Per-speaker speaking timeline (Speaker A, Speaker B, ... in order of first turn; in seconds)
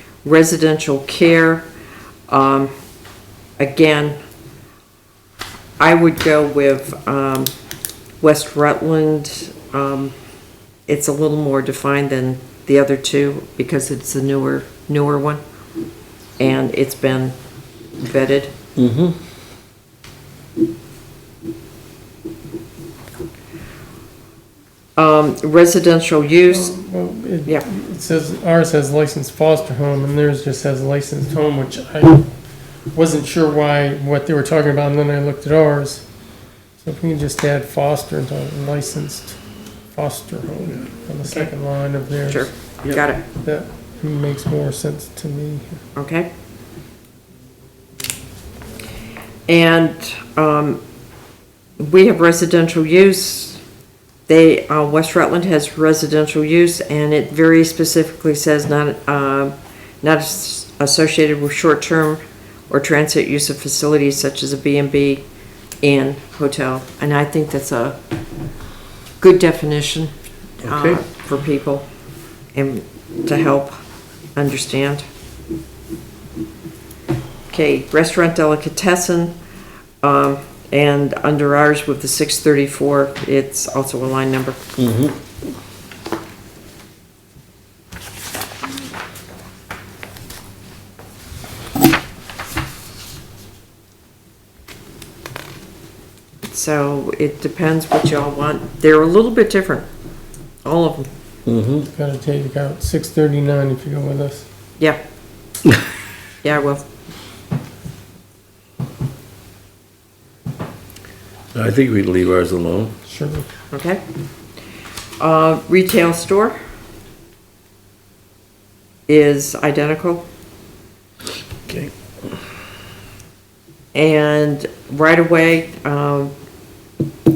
Speaker A: 0.2-1.7, 2.3-2.7, 3.6-4.2, 5.8-7.5, 8.2-10.1, 10.9-15.4, 16.4-17.4, 18.0-18.6, 25.0-26.7, 42.3-43.2, 46.0-46.3, 49.5-50.8, 51.8-53.6, 54.3-65.2, 65.8-68.0, 69.2-70.1, 70.6-71.9, 72.5-73.7, 74.4-75.0, 77.5-79.3, 80.0-84.6, 96.5-99.9, 100.6-101.1, 106.4-106.8, 113.7-114.0, 115.2-116.6, 119.1-120.2, 123.9-126.3
Speaker B: 18.8-19.2, 70.6-71.0, 84.8-85.2, 101.5-101.9, 111.5-113.0, 121.7-121.9
Speaker C: 26.5-32.3, 32.9-36.0, 36.8-39.4, 40.0-42.5, 43.5-45.8, 101.9-104.5, 113.1-113.5